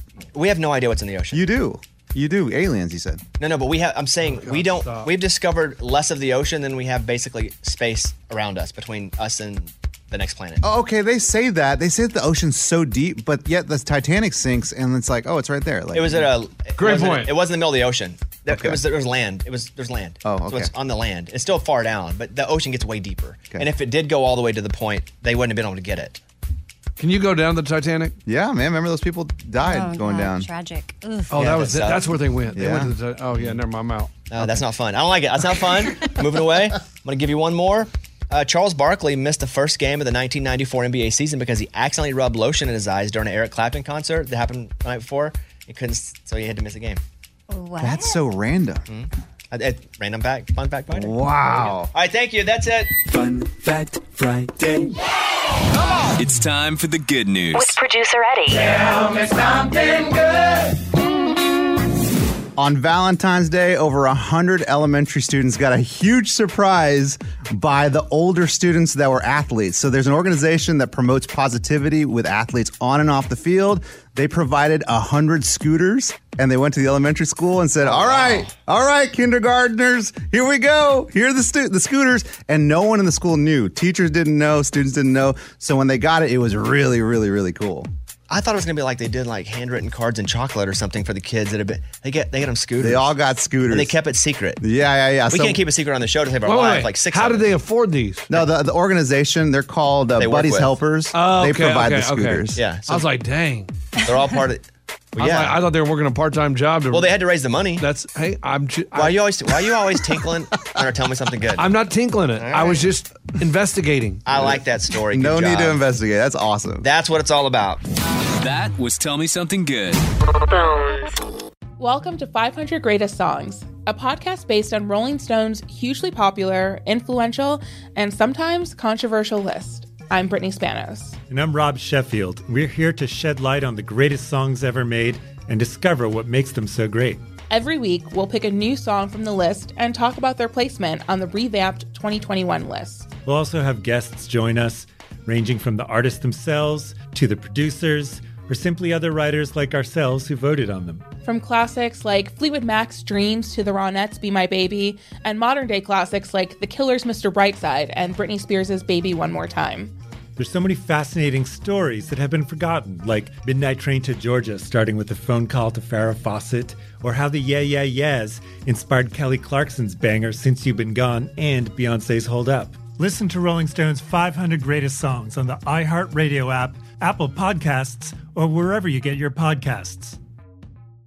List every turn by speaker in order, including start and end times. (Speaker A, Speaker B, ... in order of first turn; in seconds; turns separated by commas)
Speaker A: 0.3-1.4, Speaker B: 1.3-3.2, Speaker A: 3.4-10.6, Speaker C: 4.3-5.1, Speaker B: 10.6-16.3, Speaker A: 15.9-26.2, Speaker C: 16.8-17.3, Speaker B: 18.5-18.8, Speaker B: 20.2-20.7, Speaker C: 27.0-28.1, Speaker B: 28.2-30.5, Speaker D: 29.6-31.3, Speaker C: 31.3-34.2, Speaker A: 31.4-32.0, Speaker B: 32.5-32.9, Speaker A: 34.3-47.0, Speaker D: 47.5-48.2, Speaker B: 47.8-48.8, Speaker A: 48.9-52.9, Speaker B: 50.9-51.9, Speaker E: 56.1-57.8, Speaker F: 57.5-58.7, Speaker B: 62.5-87.9, Speaker A: 77.8-78.5, Speaker A: 88.3-93.1, Speaker B: 92.8-93.9, Speaker A: 93.7-94.6, Speaker B: 94.6-95.6, Speaker A: 95.3-97.5, Speaker C: 96.4-98.3, Speaker B: 98.3-102.6, Speaker A: 100.2-100.7, Speaker C: 101.1-103.7, Speaker A: 102.5-103.0, Speaker A: 104.0-104.6, Speaker A: 105.1-105.6, Speaker C: 105.2-107.1, Speaker A: 106.9-107.8, Speaker C: 107.8-109.2, Speaker A: 108.9-111.7, Speaker C: 111.5-114.2, Speaker A: 112.3-112.8, Speaker A: 114.2-115.8, Speaker B: 114.3-114.6, Speaker B: 115.1-116.8, Speaker A: 116.8-117.8, Speaker E: 118.4-120.0, Speaker F: 120.3-121.2, Speaker G: 121.8-131.2, Speaker H: 131.3-137.2, Speaker G: 137.5-143.1, Speaker H: 143.2-151.1, Speaker G: 151.2-159.9, Speaker H: 160.4-180.2